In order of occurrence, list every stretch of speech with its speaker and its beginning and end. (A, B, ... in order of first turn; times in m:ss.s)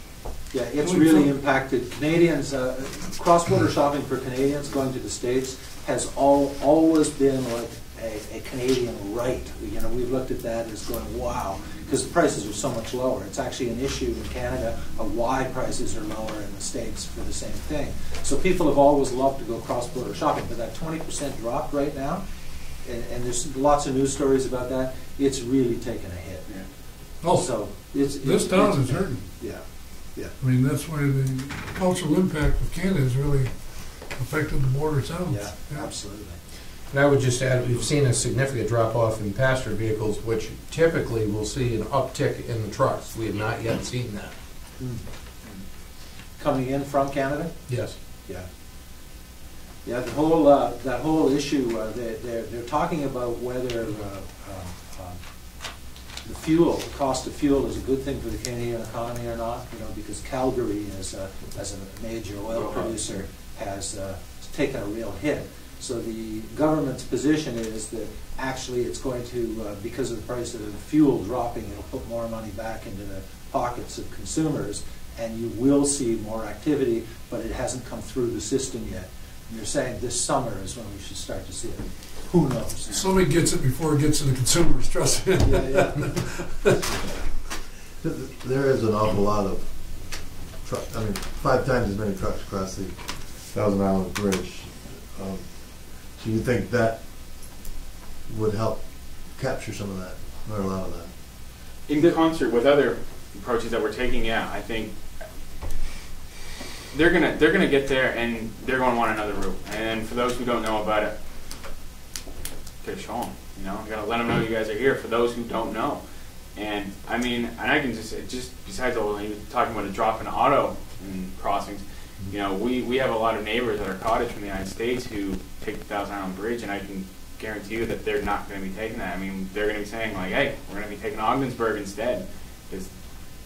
0:00.5-0:22.2 A
0:00.8-0:01.3 B
0:22.8-0:26.5 A
0:27.2-0:29.2 B
0:27.3-0:29.6 A
0:30.4-0:33.5 B
0:34.1-0:35.9 B
0:35.3-0:36.4 A
0:36.9-0:44.4 C
0:44.8-0:45.6 A
0:46.4-0:47.6 A
0:47.7-0:48.0 C
0:49.8-0:55.2 A
0:56.2-1:23.0 A
1:22.9-1:26.8 B
1:25.4-1:26.3 A
1:28.0-1:37.0 D
1:38.3-1:41.1 D
1:41.9-1:44.9 E
1:46.9-1:51.1 E
1:52.8-1:56.0 E
1:56.6-2:12.9 E